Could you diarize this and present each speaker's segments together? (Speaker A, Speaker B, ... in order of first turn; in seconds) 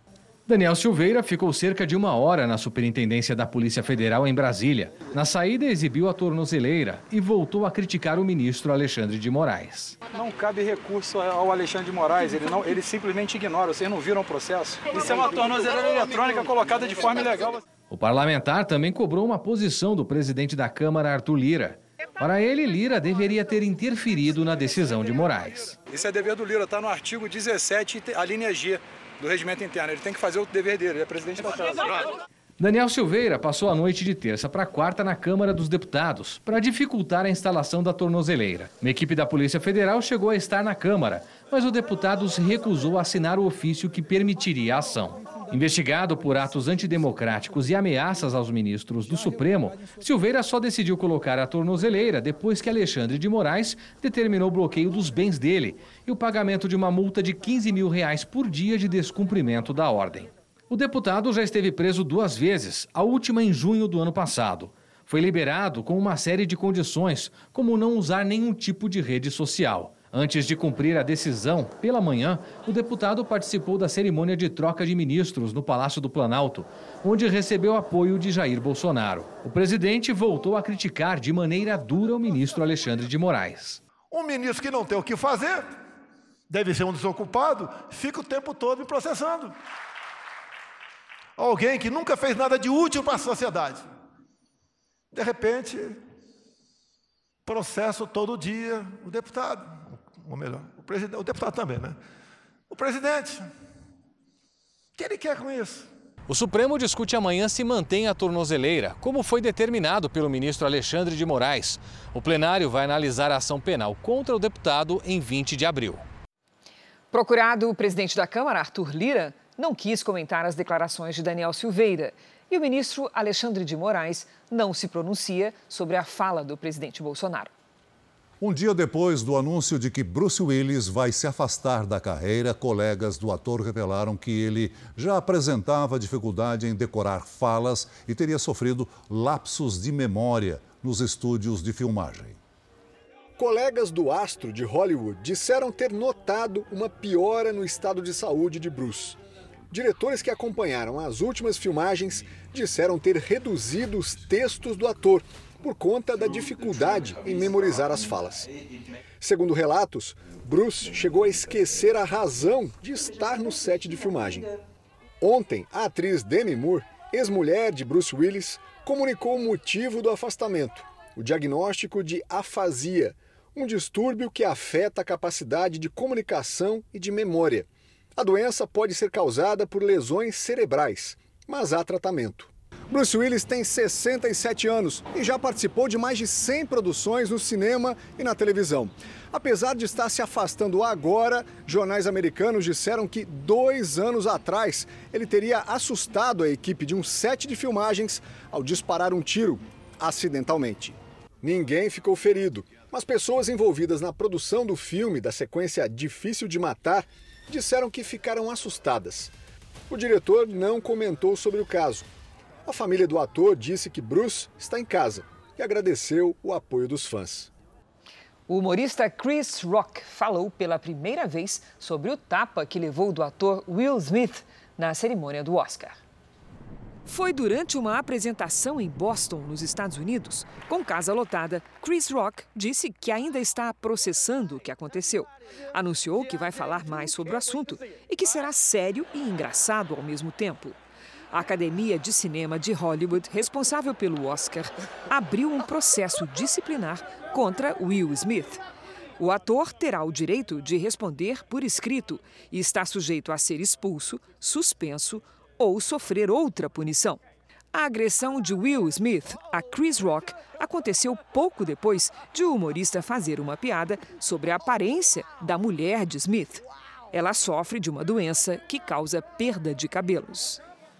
Speaker A: 0.5-9.9, 17.9-25.7, 32.6-83.8, 106.3-116.0
Speaker B: 10.1-17.6, 25.9-31.9
Speaker C: 84.1-85.8, 86.5-89.6, 91.4-93.9, 95.1-96.0, 97.5-102.0, 102.7-103.5, 105.0-105.9
Speaker D: 117.1-127.5, 218.5-226.0, 227.1-240.8, 241.3-248.6, 249.2-257.2, 257.7-270.6
Speaker E: 128.4-142.4
Speaker F: 143.4-149.2, 149.7-158.5, 159.2-164.5, 165.2-209.3, 209.9-212.1, 212.7-217.5